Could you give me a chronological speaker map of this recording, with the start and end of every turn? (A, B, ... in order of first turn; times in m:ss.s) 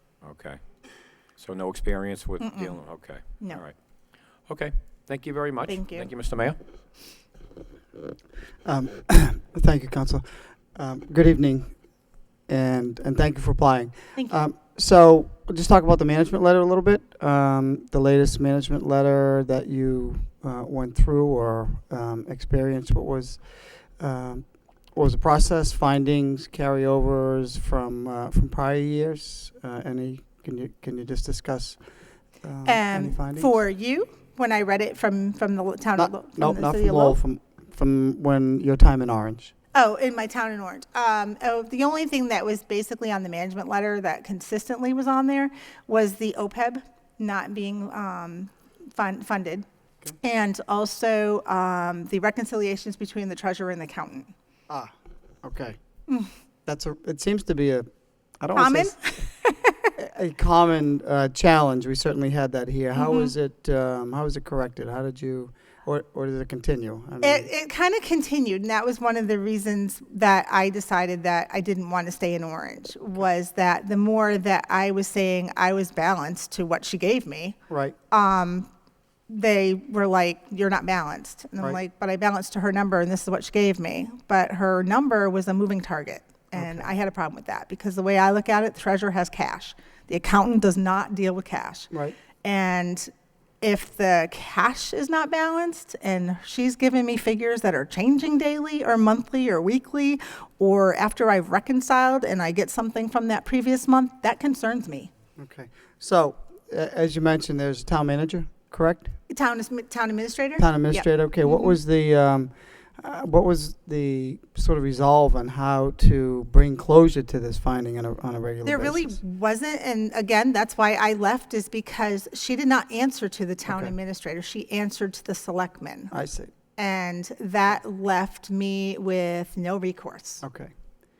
0:00.2-0:00.6 A
0:01.3-0:03.8 A
0:02.4-0:02.8 B
0:04.5-0:06.6 A
0:05.7-0:06.1 B
0:08.6-0:11.7 C
0:12.5-0:23.4 C
0:14.2-0:14.5 B
0:24.0-0:31.8 C
0:32.4-0:33.6 C
0:32.6-0:37.2 B
0:36.0-0:39.5 C
0:39.7-0:49.6 B
0:50.2-0:54.3 B
0:54.7-0:55.8 C
0:56.7-0:57.9 C
0:58.4-0:59.0 C
0:58.6-0:59.9 B
1:00.0-1:07.5 C
1:03.0-1:03.3 B
1:07.2-1:17.6 B
1:17.7-1:18.0 C
1:18.1-1:18.7 B
1:19.3-1:33.1 B
1:26.6-1:26.9 C
1:31.9-1:32.2 C
1:33.6-1:45.1 B
1:45.4-1:49.2 C
1:49.3-1:51.8 B
1:50.6-1:59.2 C
1:58.6-2:06.1 B
2:03.7-2:04.0 C
2:06.1-2:06.5 C
2:06.8-2:10.4 B
2:10.4-2:10.7 C